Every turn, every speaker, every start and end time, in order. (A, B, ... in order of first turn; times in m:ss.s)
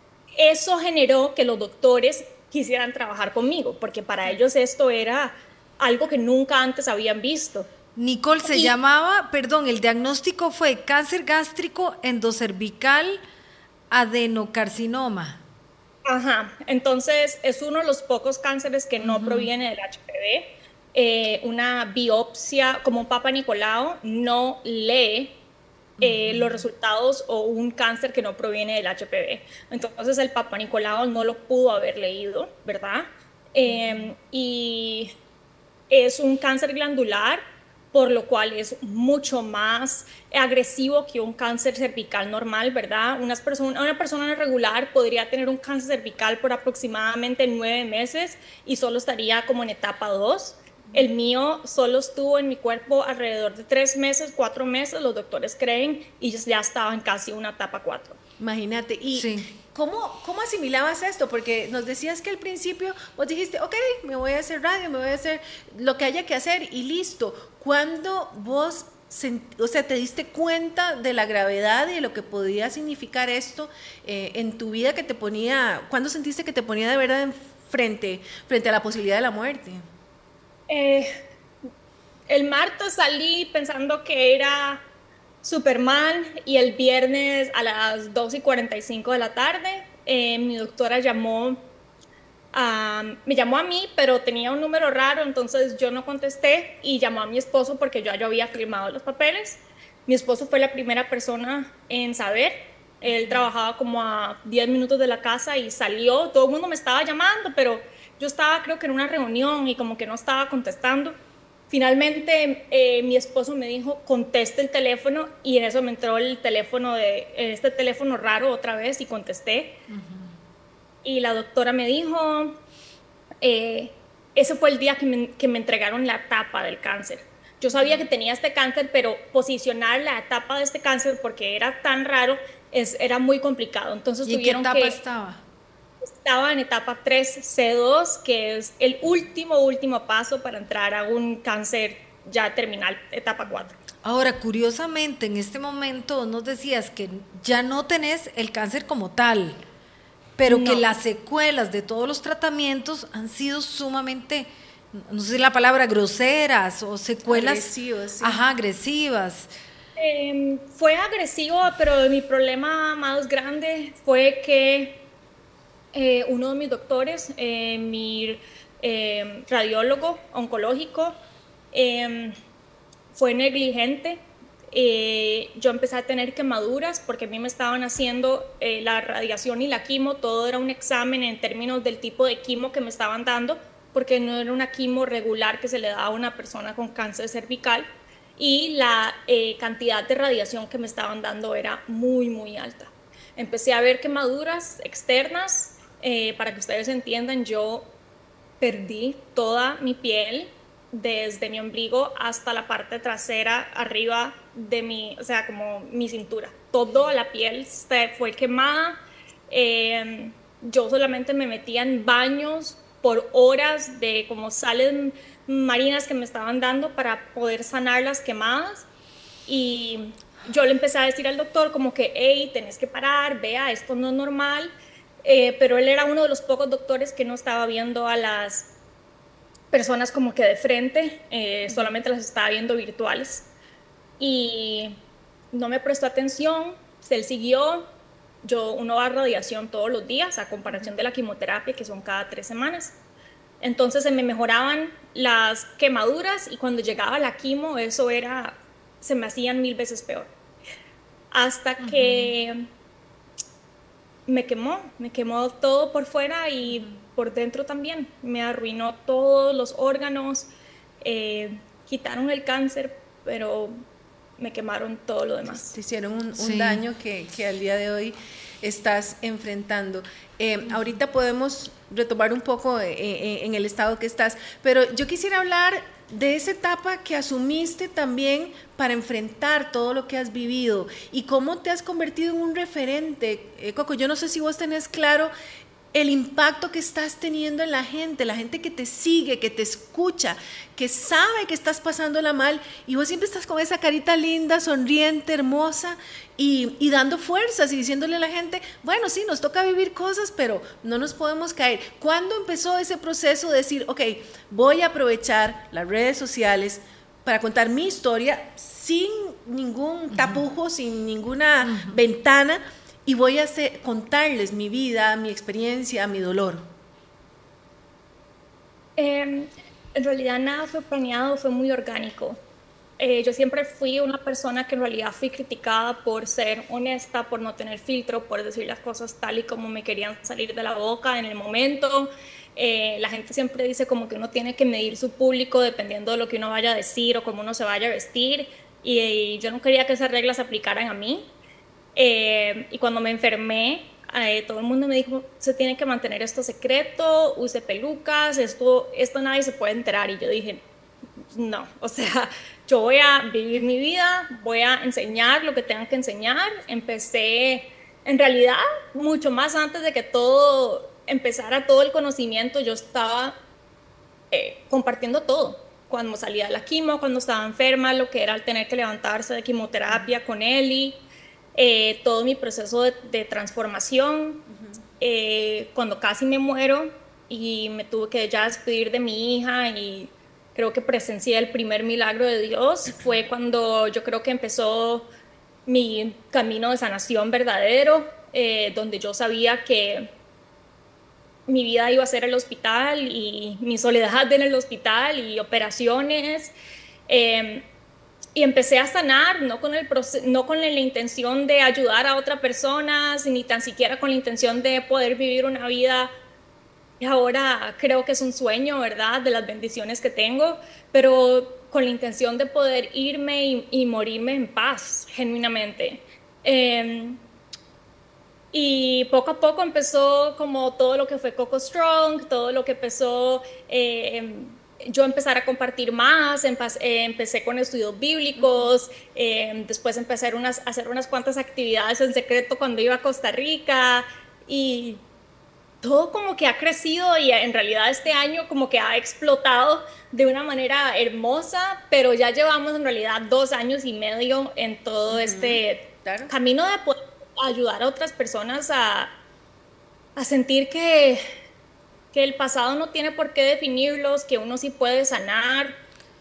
0:00.3-0:07.7 A
0:08.0-0:13.2 B
0:08.4-0:08.7 A
0:13.9-0:15.4 B
0:16.0-0:25.4 A
0:19.0-0:19.5 B
0:26.0-0:26.6 B
0:26.0-0:35.1 A
0:35.9-0:37.4 A
0:37.9-0:58.2 A
0:58.4-1:19.8 C
0:59.1-0:59.5 B
1:20.7-1:21.1 A
1:22.3-1:24.8 A
1:25.4-1:31.6 A
1:32.5-1:51.2 A
1:51.7-1:59.8 A
1:59.9-2:00.3 B
2:01.0-2:02.6 A
2:03.4-2:15.0 A
2:14.2-2:15.4 B
2:16.0-2:23.7 A
2:24.0-2:29.6 B
2:30.4-2:39.5 B
2:30.4-2:30.9 A
2:37.3-2:38.4 C
2:40.0-2:45.0 A
2:45.9-2:51.2 A
2:51.7-2:52.4 A
2:53.1-3:17.9 A
3:18.6-3:38.8 A
3:39.4-3:44.7 A
3:45.2-3:48.7 A
3:49.7-3:53.5 A
3:54.2-3:55.0 A
3:55.5-3:57.9 A
3:58.4-4:02.9 A
4:03.6-4:10.3 A
4:11.3-4:12.7 A
4:11.8-4:12.3 B
4:14.3-4:20.5 A
4:21.0-4:23.8 A
4:24.4-4:25.7 A
4:25.5-4:45.3 C
4:26.4-4:26.8 B
4:45.9-5:16.7 C
5:10.1-5:10.4 B
5:11.6-5:12.0 B
5:19.0-5:22.4 A
5:23.0-5:41.3 A
5:41.9-5:50.6 A
5:51.3-6:03.4 A
6:04.3-6:11.0 A
6:11.6-6:14.4 A
6:14.5-6:14.8 C
6:15.0-6:25.1 A
6:25.7-6:30.1 A
6:31.5-6:36.5 A
6:37.1-6:37.7 A
6:38.3-6:46.1 A
6:47.0-6:57.2 A
6:58.5-7:15.0 A
7:08.4-7:08.7 C
7:15.8-7:29.1 A
7:25.1-7:26.3 C
7:30.2-7:31.2 A
7:32.1-7:35.7 A